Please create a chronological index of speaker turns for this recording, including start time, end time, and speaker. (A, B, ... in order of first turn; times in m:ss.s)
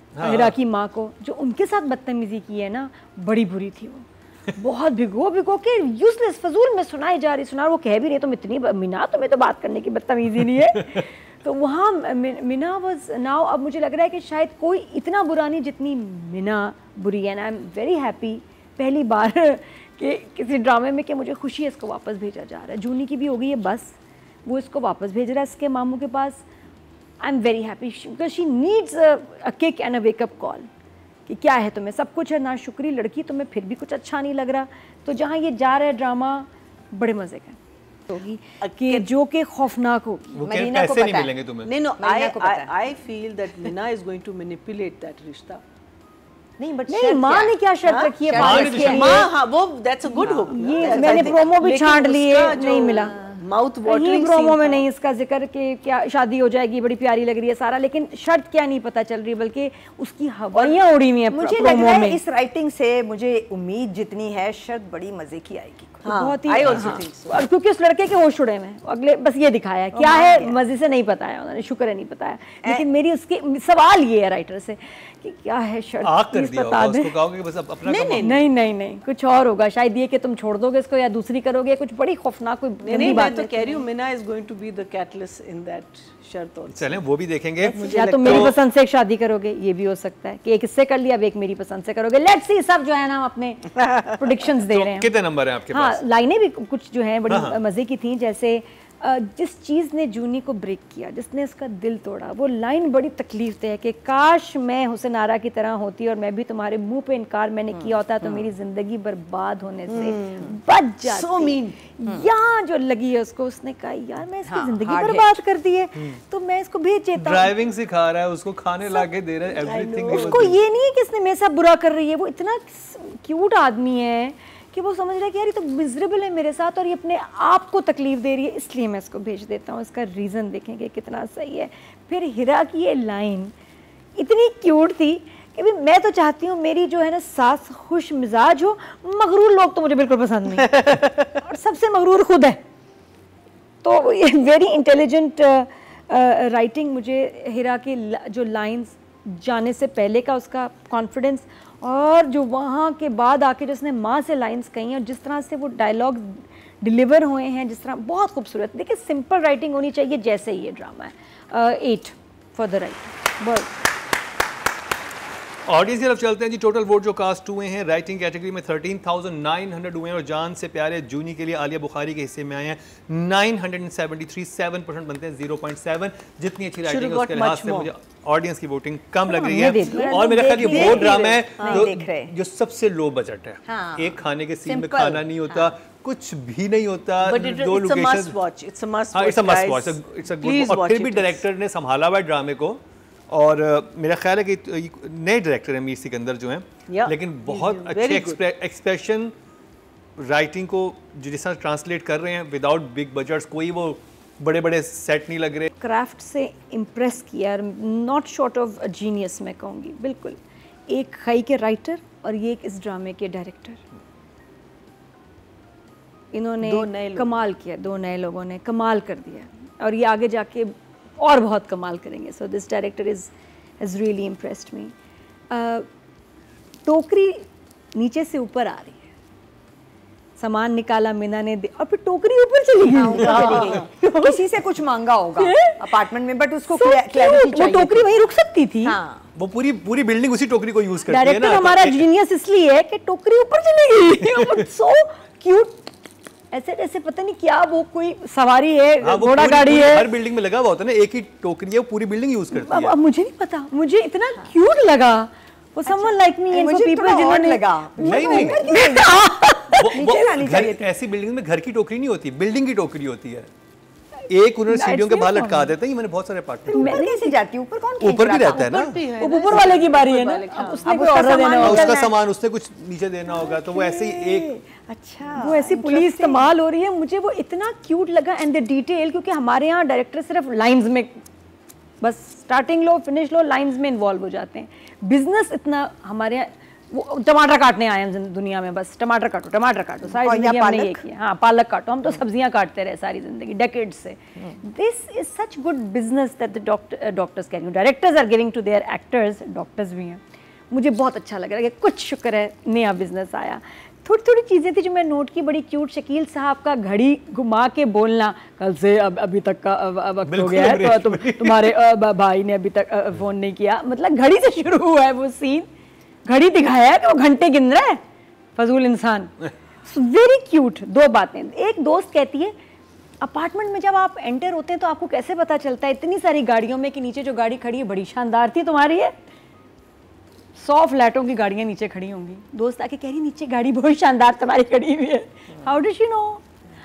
0:00.2-0:00.5 A
0:00.2-0:26.4 B
0:27.2-0:30.7 B
0:31.2-0:40.4 B
0:38.6-0:39.1 C
0:40.4-0:41.7 A
0:40.4-0:41.3 D
0:41.6-0:45.6 C
0:42.0-0:42.8 D
0:46.6-0:47.6 D
0:46.9-0:49.3 B
0:47.8-0:54.8 C
0:48.2-0:49.0 D
0:48.3-0:49.3 A
0:50.2-0:53.2 B
0:50.2-0:50.6 A
0:50.8-0:51.5 D
0:53.8-1:02.2 B
1:01.3-1:06.1 D
1:06.0-1:07.4 C
1:06.0-1:17.2 B
1:06.6-1:07.0 A
1:09.9-1:10.6 D
1:16.0-1:18.4 A
1:17.8-1:18.4 C
1:18.2-1:23.8 B
1:22.8-1:27.0 C
1:26.7-1:28.6 A
1:27.6-1:28.6 C
1:27.7-1:35.1 B
1:34.6-1:36.0 A
1:35.7-1:57.5 B
1:37.3-1:37.6 A
1:47.7-1:48.5 D
1:49.9-1:51.8 C
1:50.0-1:50.5 D
1:54.4-1:55.4 D
1:57.2-2:00.6 A
1:59.6-2:00.4 C
2:00.0-2:13.5 B
2:14.2-2:20.8 B
2:20.6-2:21.3 C
2:21.3-2:22.6 B
2:23.8-2:43.7 B
2:45.6-3:08.4 A
2:56.8-2:57.9 C
2:59.2-3:01.0 B
2:59.8-3:02.3 D
3:00.6-3:01.9 C
3:03.6-3:05.8 D
3:07.2-3:11.4 C
3:09.1-3:19.3 A
3:16.9-3:18.4 C
3:20.2-3:25.7 A
3:25.7-3:33.8 B
3:36.3-3:44.9 B
3:36.6-3:37.3 C
3:45.5-3:45.9 B
3:46.8-3:49.0 B
3:50.4-3:54.4 B
3:52.8-3:58.3 D
3:53.1-3:53.9 C
3:55.4-3:55.8 B
3:56.7-3:59.0 B
3:58.8-3:59.3 D
3:59.4-4:02.1 A
4:01.1-4:05.9 B
4:06.5-4:10.1 B
4:09.0-4:12.9 A
4:12.5-4:20.0 B
4:15.8-4:19.3 D
4:18.0-4:18.7 A
4:19.7-4:23.5 A
4:19.9-4:20.9 D
4:24.3-4:27.0 A
4:24.6-4:25.8 B
4:26.7-4:28.8 D
4:26.7-4:27.3 B
4:28.0-4:29.0 A
4:28.5-4:31.4 C
4:29.2-4:32.1 B
4:30.8-4:32.1 D
4:31.5-4:34.5 A
4:33.3-4:36.5 D
4:35.4-4:41.2 B
4:42.0-5:15.7 B
4:50.0-4:51.0 D
5:10.2-5:11.7 A
5:16.2-5:18.0 B
5:18.6-5:19.3 B
5:19.8-5:22.5 B
5:23.2-5:29.1 B
5:30.5-5:36.4 B